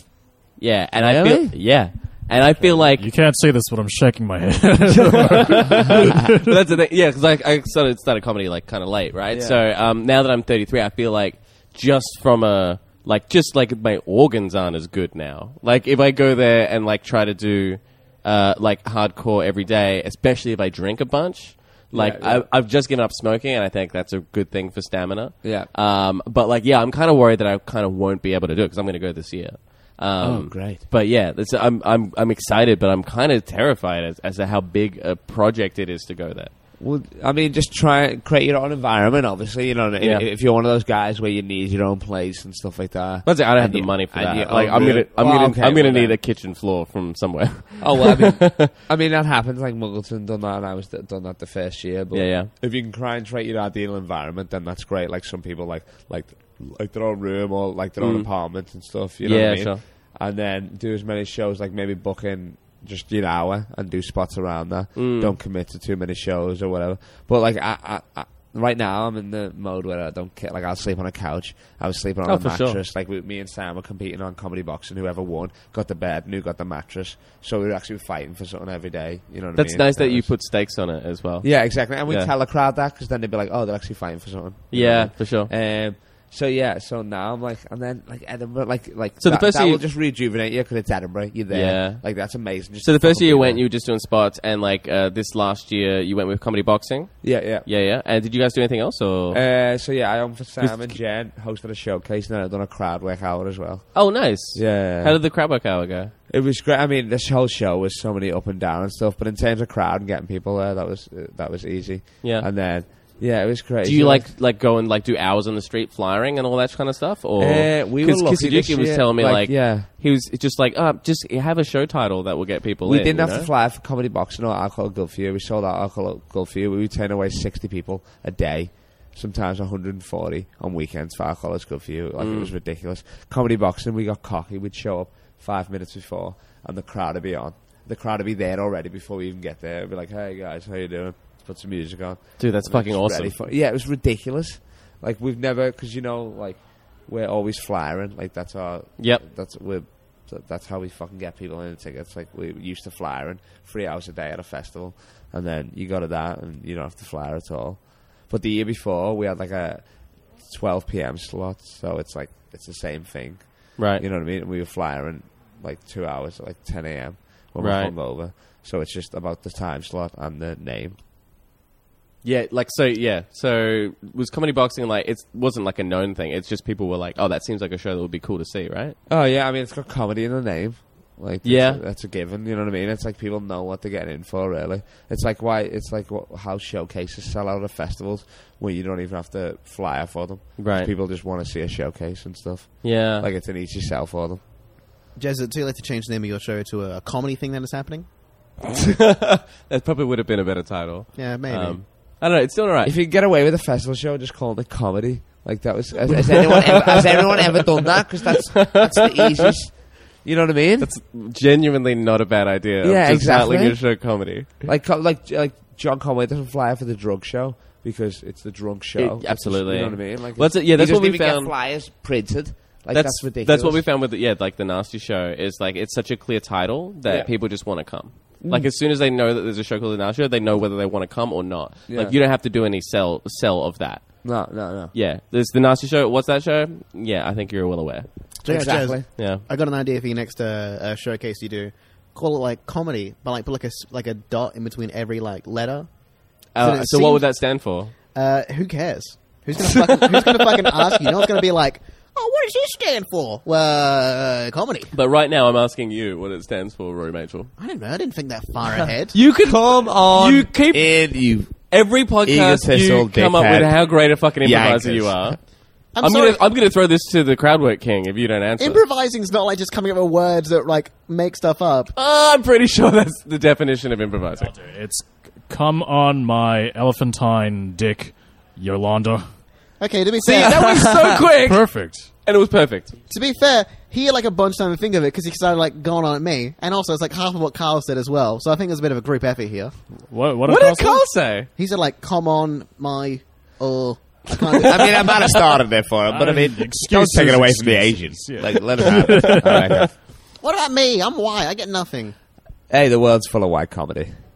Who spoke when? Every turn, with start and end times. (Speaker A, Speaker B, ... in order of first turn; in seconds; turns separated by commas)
Speaker A: 0.6-3.1, Speaker B: 1.0-1.6, Speaker B: 2.6-2.8, Speaker C: 3.0-6.5, Speaker A: 5.1-5.8, Speaker A: 6.5-36.5, Speaker B: 9.3-9.6, Speaker B: 21.9-22.5, Speaker B: 25.4-25.7, Speaker B: 30.2-30.8, Speaker B: 36.8-46.1, Speaker A: 40.0-40.2, Speaker A: 43.2-48.7, Speaker B: 47.8-80.3, Speaker A: 52.1-52.5, Speaker A: 58.0-58.3, Speaker A: 59.2-59.8, Speaker A: 64.9-65.3, Speaker A: 72.2-72.8, Speaker A: 79.5-82.3, Speaker B: 81.4-93.6, Speaker A: 84.7-85.5, Speaker A: 89.2-89.8, Speaker A: 91.5-99.4, Speaker B: 97.2-97.7, Speaker B: 99.3-105.2, Speaker A: 100.6-101.0, Speaker A: 103.9-106.1, Speaker B: 106.3-114.3, Speaker A: 112.2-112.5, Speaker A: 113.8-123.5, Speaker B: 117.4-119.9, Speaker B: 122.8-170.9, Speaker A: 132.2-132.5, Speaker A: 142.4-143.3, Speaker A: 149.0-149.2, Speaker A: 163.8-164.0, Speaker A: 167.6-167.9, Speaker A: 172.2-179.0, Speaker B: 179.1-194.4, Speaker A: 181.4-181.8, Speaker A: 190.6-190.9, Speaker A: 192.8-193.3, Speaker D: 195.2-198.1, Speaker A: 198.8-202.9, Speaker D: 201.2-201.8, Speaker B: 202.8-210.9, Speaker A: 206.1-207.8, Speaker A: 208.5-209.5, Speaker A: 210.8-214.6, Speaker B: 212.8-213.8, Speaker B: 214.6-223.8, Speaker A: 218.9-221.5, Speaker A: 222.9-234.4, Speaker B: 228.4-228.7, Speaker B: 231.9-232.2, Speaker B: 234.2-234.9, Speaker A: 234.9-238.1, Speaker D: 238.4-247.3, Speaker B: 238.4-239.1, Speaker A: 239.2-239.4, Speaker A: 246.5-247.9, Speaker D: 248.1-254.9, Speaker A: 249.7-250.4, Speaker A: 254.9-257.5, Speaker D: 257.6-259.1, Speaker A: 259.1-268.8, Speaker B: 259.4-261.5, Speaker B: 262.2-263.7, Speaker B: 264.4-265.3, Speaker D: 265.9-266.4, Speaker D: 268.6-271.9, Speaker A: 271.9-274.5, Speaker C: 274.4-279.4, Speaker D: 279.8-280.6, Speaker A: 280.2-282.9, Speaker C: 280.4-282.1, Speaker B: 280.6-281.1, Speaker D: 283.1-289.7, Speaker C: 290.1-291.2, Speaker A: 290.4-291.5, Speaker D: 291.6-295.4, Speaker B: 294.6-299.9, Speaker C: 296.1-299.7, Speaker A: 299.1-299.8, Speaker D: 300.4-302.1, Speaker B: 302.7-304.1